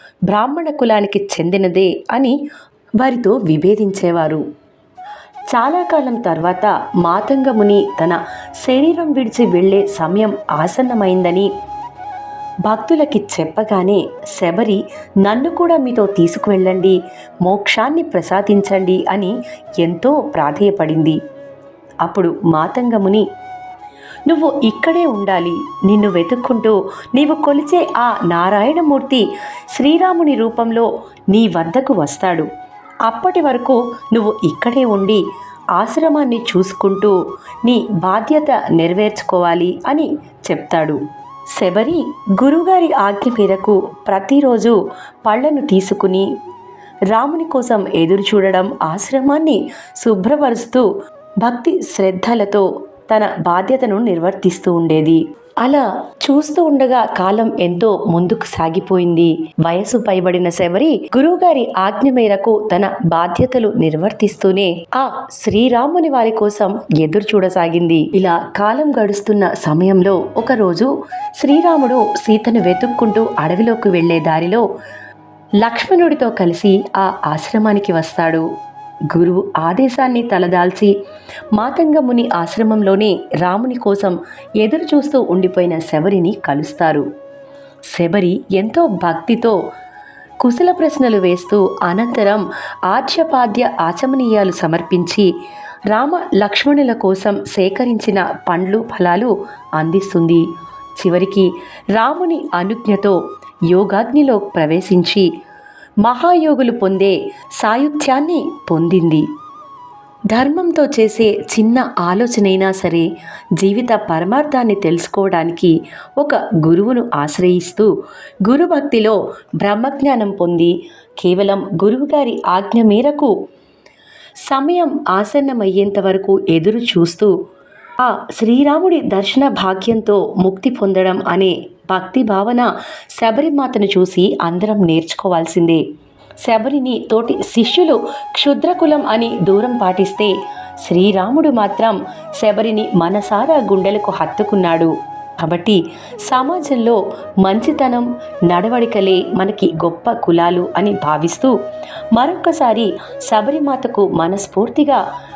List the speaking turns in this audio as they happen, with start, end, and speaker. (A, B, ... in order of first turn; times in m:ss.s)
0:00.3-0:02.4 A
0:03.0-0:04.4 A
0:05.5-0:11.5 A
0:12.6-0:21.2 A
0:22.0-0:23.2 A
0:24.3-0:32.5 A
0:33.0-0:35.2 A
0:35.8-0:41.0 A
0:41.6-0:46.3 A
0:47.1-0:50.9 A
0:51.4-1:14.6 A
1:15.6-1:18.4 A
1:19.1-1:20.9 A
1:21.5-1:27.0 A
1:27.9-1:29.6 A
1:30.4-1:35.3 A
1:35.9-1:40.4 A
1:41.0-1:43.2 A
1:43.7-1:45.3 A
1:46.0-1:49.2 A
1:50.3-1:53.1 A
1:53.6-1:57.9 A
1:58.5-2:03.3 A
2:04.5-2:07.3 A
2:08.0-2:15.8 A
2:16.4-2:31.5 A
2:32.1-2:35.0 A